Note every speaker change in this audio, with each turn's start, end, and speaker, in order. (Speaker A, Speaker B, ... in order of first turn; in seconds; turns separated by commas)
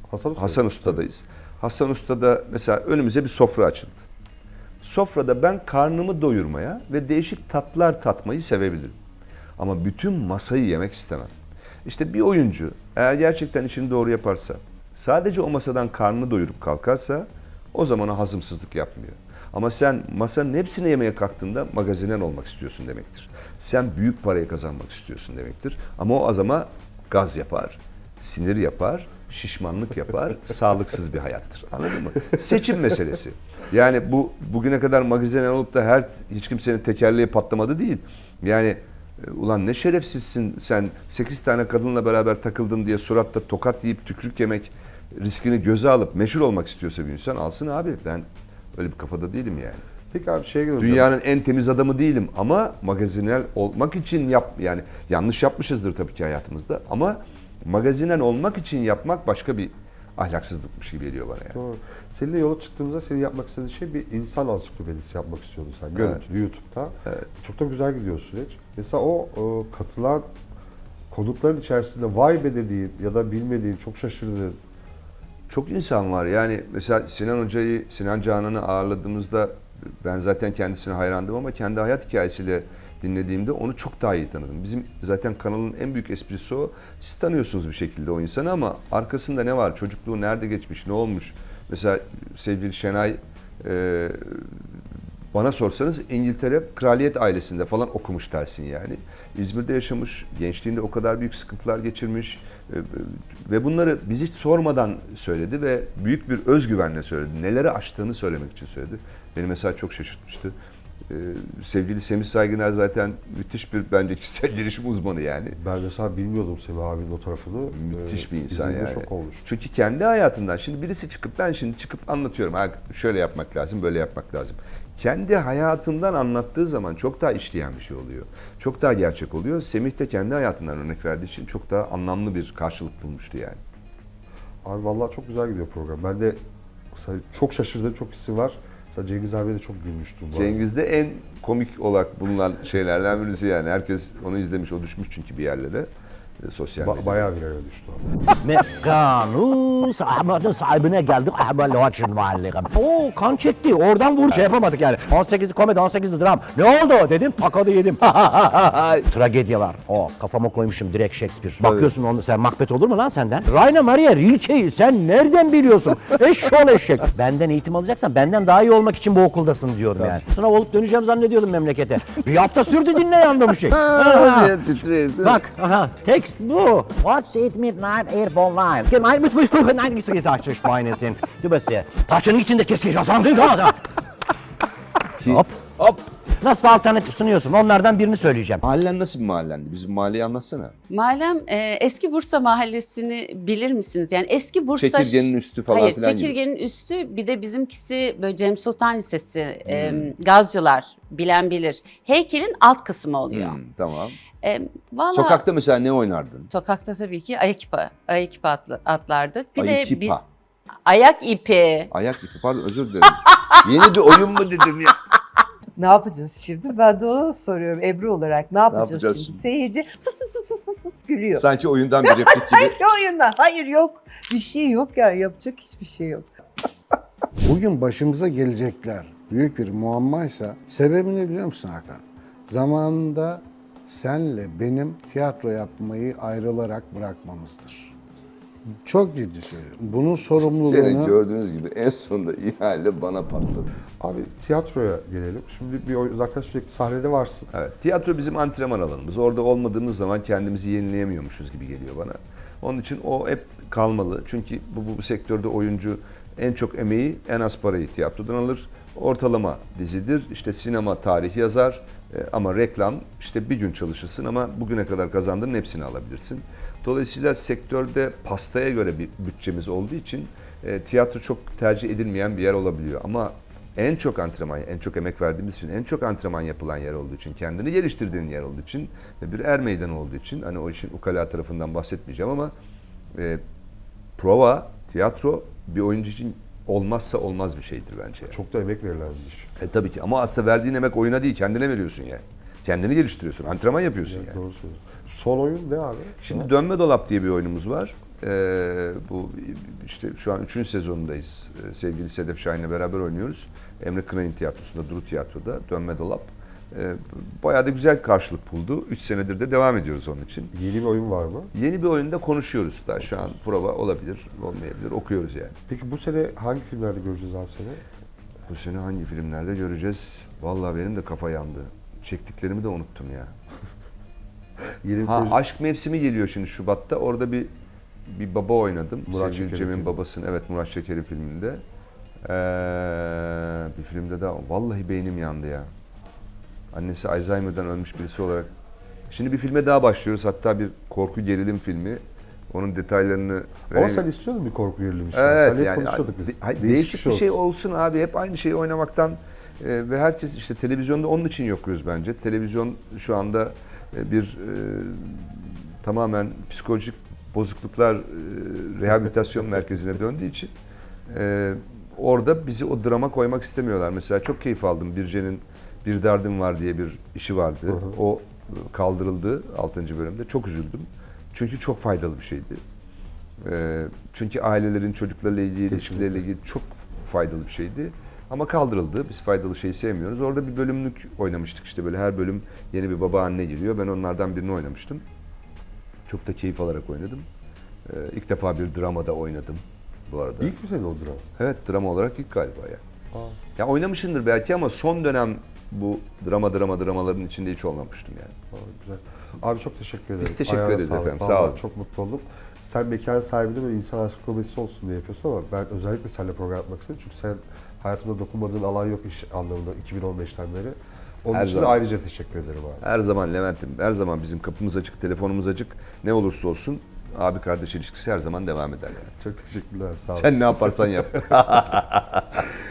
Speaker A: 0.1-1.0, Speaker B: 0.4-4.1, Speaker B: 4.8-9.0, Speaker B: 9.6-11.3, Speaker B: 11.8-49.8, Speaker A: 50.1-51.1, Speaker B: 50.8-61.6, Speaker A: 61.5-70.3, Speaker B: 66.0-66.2, Speaker A: 71.1-74.6, Speaker B: 75.5-94.7, Speaker B: 95.3-110.5, Speaker B: 111.1-115.6, Speaker A: 115.6-119.5, Speaker B: 117.7-133.6, Speaker A: 134.6-136.4, Speaker A: 136.9-140.6, Speaker B: 140.3-145.9, Speaker B: 146.4-147.3, Speaker A: 146.8-148.0, Speaker C: 148.4-174.6, Speaker B: 161.6-161.9, Speaker B: 169.9-170.2, Speaker B: 173.7-175.4, Speaker C: 175.2-183.8, Speaker B: 185.2-186.1, Speaker C: 185.2-185.5, Speaker C: 186.4-188.6, Speaker B: 188.6-190.7, Speaker D: 190.9-203.6, Speaker B: 194.8-196.4, Speaker B: 199.7-200.1, Speaker B: 203.3-204.2, Speaker D: 204.4-205.4, Speaker B: 205.1-206.5, Speaker D: 206.5-210.2, Speaker B: 209.6-210.2, Speaker D: 210.9-211.9, Speaker B: 211.9-215.1, Speaker E: 215.8-219.8, Speaker B: 218.7-219.4, Speaker E: 221.1-221.4, Speaker B: 221.4-222.8, Speaker E: 222.1-226.2, Speaker F: 227.4-237.9, Speaker F: 238.8-241.2, Speaker B: 240.4-243.7, Speaker A: 244.0-247.5, Speaker B: 247.5-282.5, Speaker B: 283.2-283.4, Speaker B: 284.2-288.4, Speaker A: 288.3-289.5, Speaker B: 289.6-294.4, Speaker A: 294.1-296.5, Speaker B: 296.2-310.5, Speaker A: 310.5-311.5, Speaker B: 311.5-315.5, Speaker A: 315.7-317.8, Speaker B: 318.5-323.4, Speaker A: 324.8-325.4, Speaker B: 325.1-327.5, Speaker B: 328.1-331.6, Speaker A: 329.1-329.9, Speaker B: 332.3-335.7, Speaker B: 336.7-338.5, Speaker B: 339.1-344.1, Speaker A: 343.7-347.4, Speaker B: 345.1-360.5, Speaker B: 361.1-372.6, Speaker B: 373.4-385.0, Speaker A: 375.7-376.2, Speaker B: 386.1-387.3, Speaker B: 387.9-390.5, Speaker A: 390.4-391.2, Speaker B: 391.4-392.8, Speaker A: 393.1-393.4, Speaker B: 393.6-398.3, Speaker A: 398.5-412.8, Speaker B: 400.2-401.6, Speaker B: 411.3-411.8, Speaker B: 412.8-419.1, Speaker A: 419.1-420.9, Speaker B: 420.2-422.5